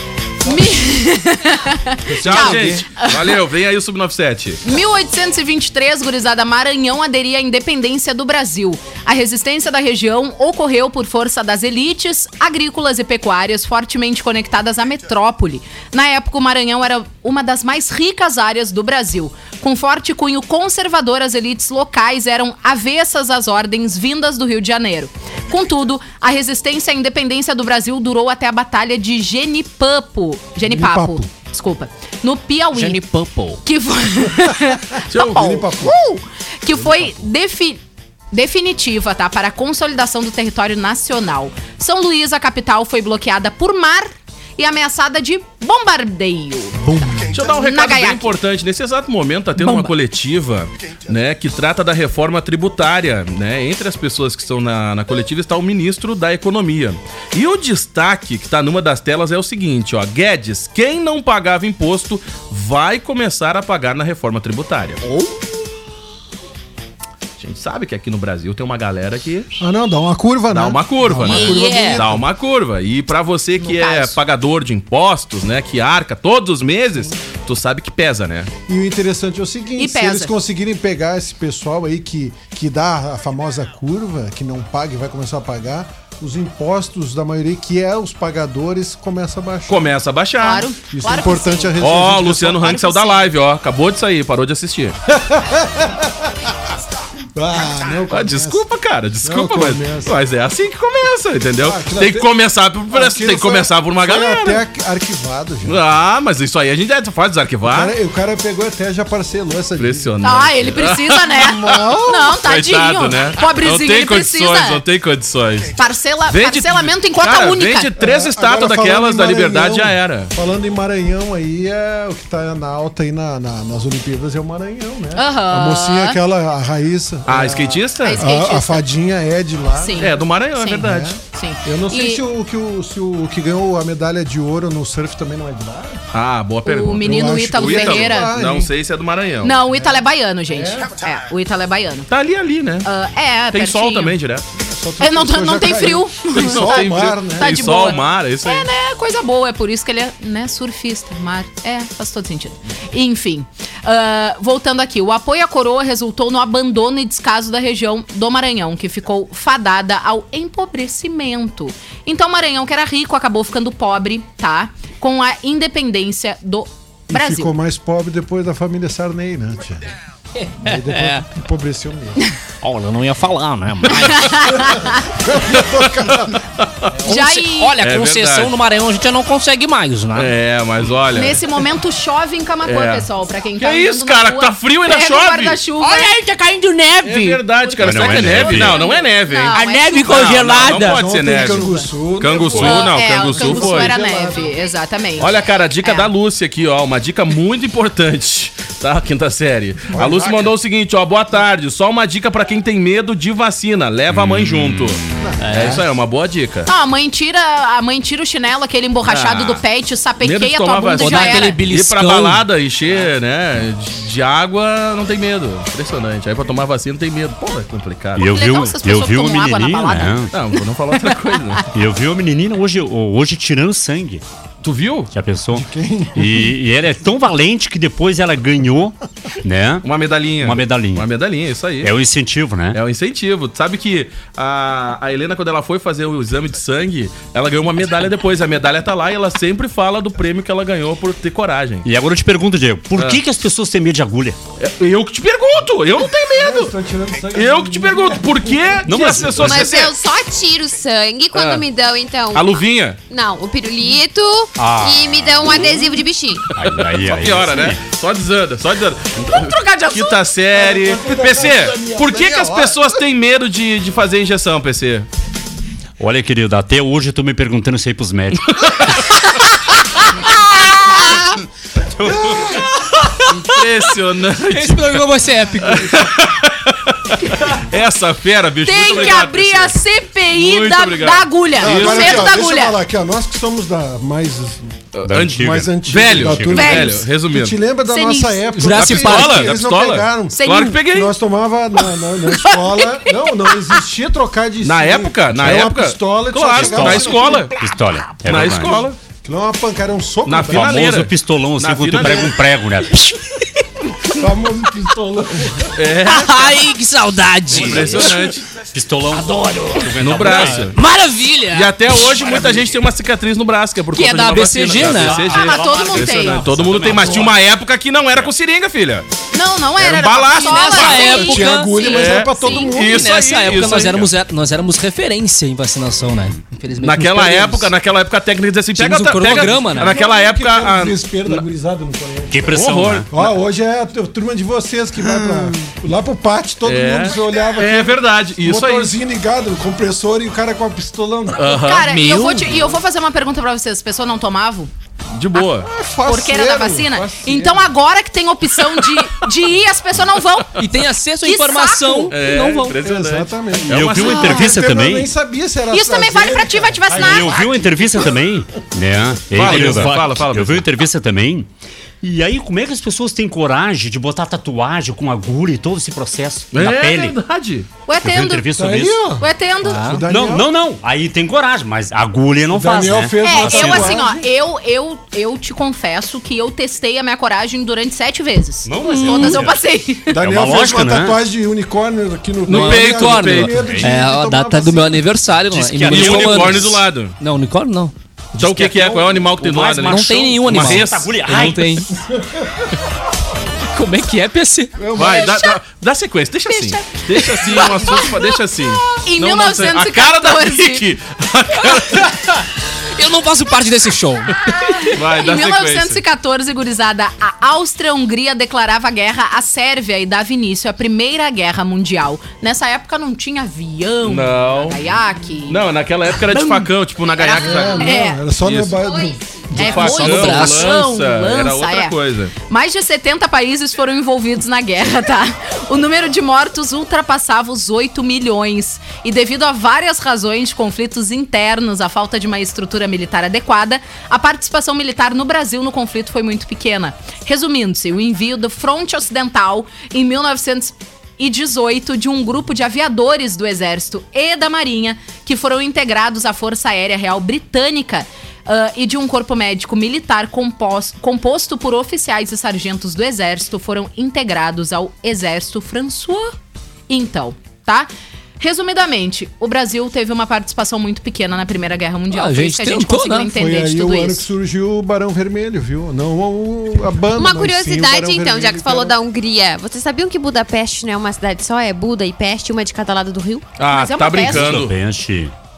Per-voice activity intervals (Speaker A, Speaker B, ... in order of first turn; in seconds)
Speaker A: 0.4-3.4, 4.6-33.0, 33.6-37.8, 38.3-48.3, 49.6-49.9, 73.6-74.2, 79.8-80.3, 90.4-91.8, 92.5-93.3, 110.2-114.8, 115.8-117.9, 125.1-126.2, 128.0-128.8, 129.7-132.2, 136.7-138.3, 139.4-142.1, 142.8-144.2, 145.0-167.5, 174.0-175.0, 177.1-177.7, 181.1-186.1, 187.8-190.2, 191.3-191.9, 192.5-196.1, 206.7-211.6, 218.2-220.3, 221.0-221.4, 259.3-260.2, 278.6-282.8, 286.5-286.9, 287.9-288.6, 290.3-290.8, 292.4-292.8, 315.2-316.4, 319.3-322.7, 341.5-344.7, 346.0-350.6, 351.2-352.1, 355.7-357.6, 367.9-368.5, 369.2-369.8, 373.2-380.1, 396.5-396.8, 397.4-398.3, 399.0-400.8, 404.6-415.6, 416.3-418.2, 419.5-421.9, 422.5-456.3, 456.9-464.2, 473.7-474.5
Speaker B: 2.1-4.6, 35.1-35.5, 47.3-65.0, 67.4-69.6, 70.5-78.5, 89.7-90.7, 91.8-95.0, 98.1-104.6, 105.6-107.9, 109.8-111.3, 112.4-115.7, 116.3-120.3, 127.3-128.2, 130.0-131.2, 136.1-139.6, 142.1-142.9, 143.5-144.4, 146.3-148.7, 175.5-176.9, 177.8-178.5, 180.1-181.4, 182.6-183.1, 183.6-185.6, 187.0-191.7, 192.2-194.0, 195.2-206.7, 209.1-209.6, 210.2-218.3, 220.3-221.7, 224.6-225.1, 229.8-231.9, 232.7-241.8, 244.6-246.7, 247.3-249.9, 251.3-251.6, 252.3-253.0, 256.6-265.1, 268.6-268.9, 273.3-275.0, 275.6-279.8, 280.3-282.3, 284.9-287.6, 288.7-291.1, 294.6-297.5, 298.2-299.0, 300.2-302.4, 305.7-306.7, 307.5-308.5, 309.9-310.8, 311.5-319.1, 319.8-321.1, 321.8-324.1, 326.8-331.4, 332.5-333.3, 336.6-338.9, 341.4-341.9, 345.1-345.7, 352.1-354.6, 359.3-360.6, 366.5-367.7, 382.5-383.6, 385.9-387.1, 388.4-391.1, 394.9-402.1, 404.9-406.0, 414.0-414.8, 415.5-418.8, 419.5-422.3, 473.6-474.7
Speaker C: 2.2-2.6, 32.7-33.6, 46.8-47.3, 65.0-65.4, 71.3-72.0, 170.4-171.2, 172.6-174.6, 177.0-180.3, 185.8-187.4, 189.5-191.0, 205.4-205.8, 211.0-212.4, 274.5-276.0, 288.5-289.5, 306.1-308.3, 309.1-312.3, 313.9-315.3, 320.3-321.7, 322.8-327.7, 328.7-329.9, 341.8-342.7, 350.6-352.8, 369.6-370.0, 378.8-379.4, 382.5-387.9, 389.8-391.9, 393.7-394.8, 401.8-402.4, 402.9-404.5, 419.6-420.8, 462.1-463.3
Speaker D: 30.6-31.3, 35.3-36.0, 69.6-72.2, 78.7-89.9, 90.9-92.8, 95.1-96.3, 97.3-98.6, 99.2-100.2, 101.6-102.3, 102.9-105.8, 107.6-110.3, 111.2-112.4, 118.0-130.2, 130.8-136.0, 137.0-138.7, 139.7-141.0, 144.5-147.9, 167.1-169.9, 170.6-172.2, 175.0-176.4, 190.7-194.5, 199.9-200.5, 205.2-205.4, 225.5-226.5, 246.3-249.3, 260.5-263.0, 272.0-272.6, 281.6-297.5, 299.2-300.8, 304.1-306.0, 321.1-323.1, 329.8-332.6, 333.1-341.7, 345.6-347.7, 352.8-358.0, 368.5-370.5, 372.5-374.2, 380.1-385.1, 391.9-392.7, 394.8-395.5, 417.3-419.9, 463.3-469.0
Speaker E: 187.8-188.8, 204.1-205.0, 218.2-220.3, 221.7-224.2, 225.1-229.8, 230.4-231.1, 231.8-232.8, 241.8-244.4, 248.9-249.7, 254.6-255.8, 256.5-257.8, 266.0-268.9, 285.1-286.8, 296.6-298.8, 300.5-303.1, 307.5-307.9, 308.7-310.7, 314.9-317.4, 332.3-333.1, 353.7-355.1, 356.9-361.5, 362.0-367.1, 368.0-369.0, 370.1-374.0, 378.6-379.6, 380.1-381.2, 383.5-383.9, 385.5-386.8, 388.4-391.9, 474.3-475.3
Speaker F: 249.4-256.5, 418.8-419.4, 467.2-473.5